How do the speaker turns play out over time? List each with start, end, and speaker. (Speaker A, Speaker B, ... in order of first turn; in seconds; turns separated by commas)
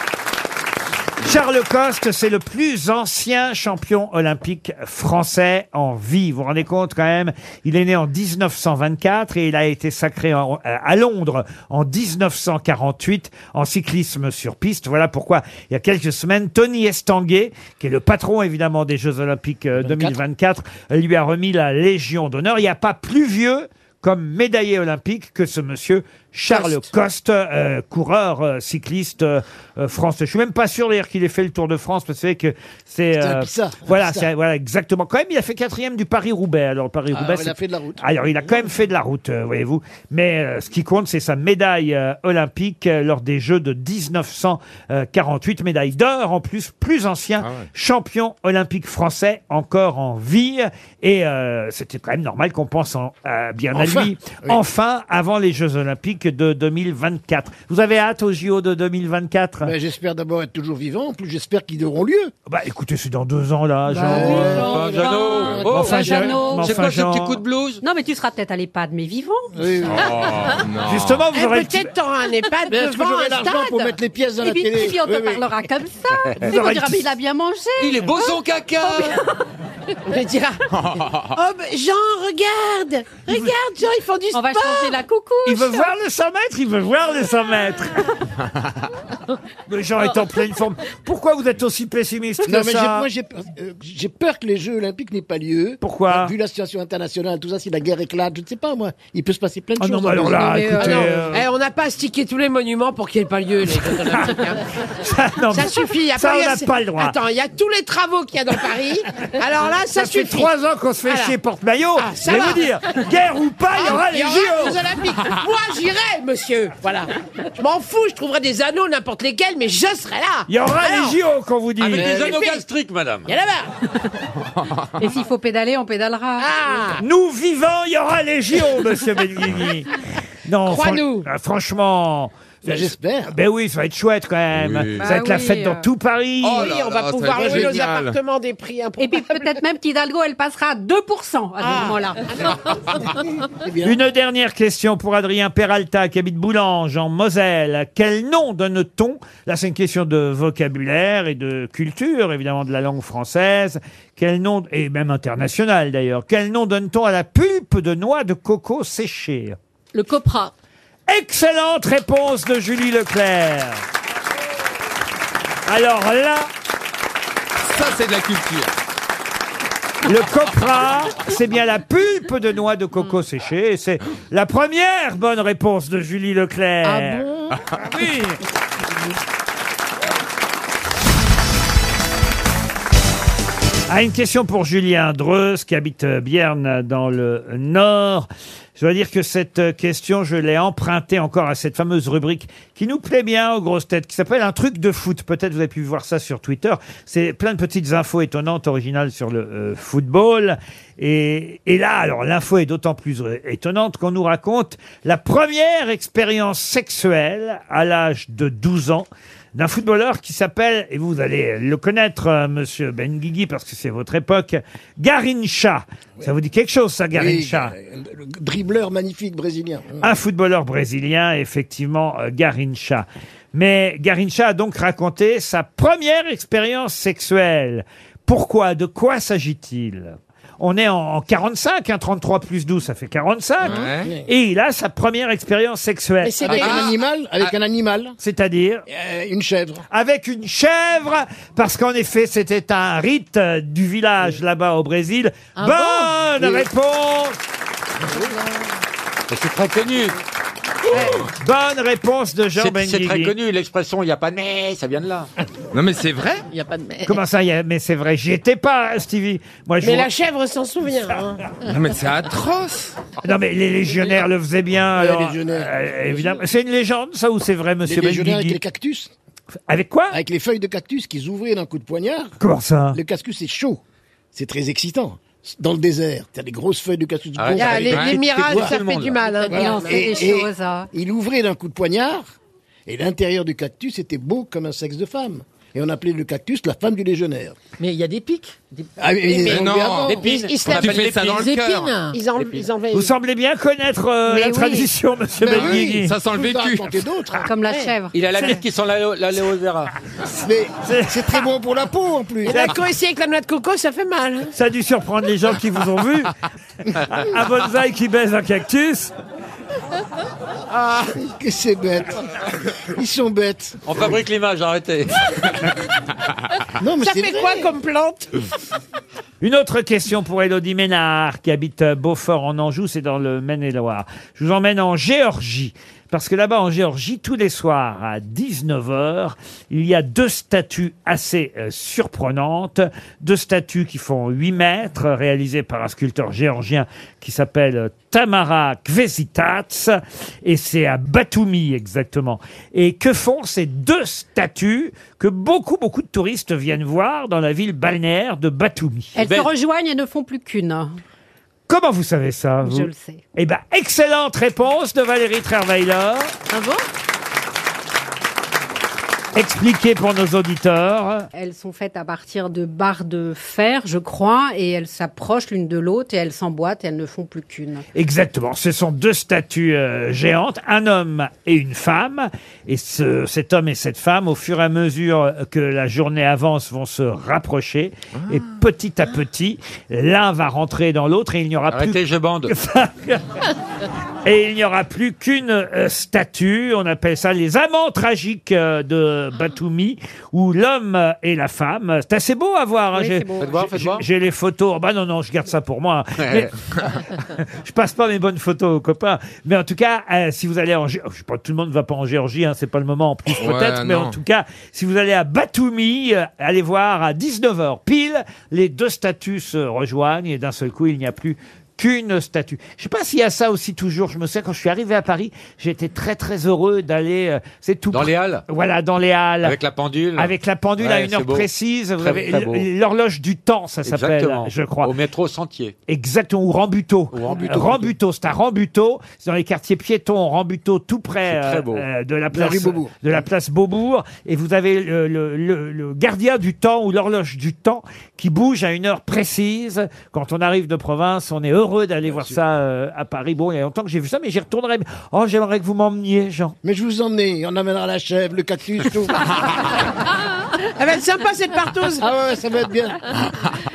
Speaker A: 1.2-59.7, Speaker B: 19.8-20.1, Speaker B: 33.2-34.3, Speaker B: 37.1-38.0, Speaker C: 47.4-47.7, Speaker B: 53.7-54.6, Speaker B: 59.6-62.3, Speaker A: 62.5-64.7, Speaker D: 63.9-66.8, Speaker B: 64.0-65.6, Speaker E: 64.4-67.8, Speaker A: 65.7-67.4, Speaker D: 67.8-69.5, Speaker B: 69.5-70.3, Speaker C: 69.8-71.3, Speaker A: 70.8-71.9, Speaker F: 71.3-73.7, Speaker B: 72.7-75.5, Speaker D: 74.4-79.3, Speaker A: 76.4-77.1, Speaker E: 77.8-79.2, Speaker F: 80.1-80.7, Speaker C: 80.7-81.4, Speaker F: 81.3-85.0, Speaker A: 83.3-83.6, Speaker D: 84.3-85.9, Speaker A: 85.4-88.1, Speaker A: 89.7-93.1, Speaker B: 92.4-100.6, Speaker A: 95.8-96.3, Speaker A: 99.8-101.5, Speaker D: 100.3-101.3, Speaker F: 100.8-104.6, Speaker A: 104.0-107.2, Speaker F: 105.5-110.5, Speaker A: 109.9-114.9, Speaker F: 111.1-111.3, Speaker F: 112.0-112.7, Speaker F: 113.7-121.2, Speaker A: 120.5-122.3, Speaker E: 121.8-123.3, Speaker F: 121.9-122.6, Speaker F: 123.3-123.7, Speaker C: 124.5-124.9, Speaker D: 125.0-126.8, Speaker F: 126.4-127.0, Speaker A: 127.0-136.7, Speaker F: 130.6-131.3, Speaker B: 132.6-133.3, Speaker C: 134.5-135.1, Speaker D: 135.0-135.9, Speaker C: 136.4-138.2, Speaker F: 136.6-139.6, Speaker D: 139.0-142.2, Speaker F: 141.6-142.6, Speaker B: 143.5-144.0, Speaker A: 143.8-159.6, Speaker G: 159.9-160.5, Speaker A: 161.1-163.8, Speaker A: 165.7-166.5, Speaker C: 167.6-168.7, Speaker A: 170.0-177.3, Speaker A: 177.8-178.4, Speaker A: 183.9-217.7, Speaker B: 217.1-220.1, Speaker A: 220.0-236.5, Speaker C: 233.6-234.1, Speaker F: 236.2-236.9, Speaker B: 236.4-238.2, Speaker C: 236.5-237.6, Speaker A: 238.2-238.8, Speaker B: 238.9-239.8, Speaker A: 239.9-247.4, Speaker G: 245.6-246.1, Speaker B: 246.4-246.6, Speaker E: 249.3-250.2, Speaker A: 250.9-253.3, Speaker E: 252.6-255.3, Speaker C: 255.7-256.4, Speaker G: 256.5-257.2, Speaker A: 257.1-260.1, Speaker F: 259.8-261.4, Speaker C: 261.6-262.9, Speaker A: 263.2-268.6, Speaker B: 265.0-266.4, Speaker B: 267.9-269.1, Speaker A: 269.7-270.2, Speaker B: 270.1-272.4, Speaker A: 272.4-273.0, Speaker B: 272.9-273.8, Speaker B: 274.3-278.7, Speaker E: 277.4-279.2, Speaker F: 277.6-280.2, Speaker C: 277.8-278.3, Speaker D: 279.3-280.9, Speaker B: 279.5-282.3, Speaker B: 282.9-287.6, Speaker G: 287.8-288.9, Speaker B: 289.0-290.3, Speaker F: 289.3-290.9, Speaker C: 289.4-292.0, Speaker E: 290.1-291.4, Speaker G: 290.7-292.5, Speaker F: 292.1-293.1, Speaker A: 292.9-296.1, Speaker D: 294.3-294.9, Speaker B: 295.4-297.5, Speaker C: 295.5-297.0, Speaker D: 297.4-298.1, Speaker F: 297.6-297.9, Speaker E: 298.1-299.9, Speaker A: 298.4-298.6, Speaker B: 300.3-302.6, Speaker A: 300.8-301.4, Speaker F: 302.4-304.5, Speaker A: 302.4-302.8, Speaker A: 304.5-306.3, Speaker A: 307.1-309.1, Speaker B: 311.1-312.2, Speaker B: 312.9-314.1, Speaker E: 313.9-315.3, Speaker B: 316.8-317.7, Speaker F: 317.0-318.3, Speaker A: 319.4-349.1, Speaker D: 349.1-351.0, Speaker E: 349.2-349.5, Speaker A: 351.7-356.3, Speaker D: 352.6-353.2, Speaker G: 356.5-356.9, Speaker A: 359.4-361.3, Speaker D: 361.3-367.9, Speaker A: 367.9-383.4, Speaker C: 378.1-378.4, Speaker E: 381.7-382.5, Speaker A: 384.2-396.6, Speaker D: 392.9-393.6, Speaker E: 393.4-394.1, Speaker E: 396.2-396.5, Speaker A: 397.4-419.6, Speaker C: 403.4-404.1, Speaker E: 417.9-418.4, Speaker E: 419.4-421.5, Speaker A: 420.1-424.9, Speaker E: 422.0-422.6, Speaker E: 423.9-425.8, Speaker A: 425.9-446.6, Speaker E: 427.1-427.9, Speaker B: 427.3-427.7, Speaker E: 431.3-431.9, Speaker B: 432.3-433.0, Speaker B: 446.6-449.6, Speaker F: 450.8-452.1, Speaker B: 452.0-453.1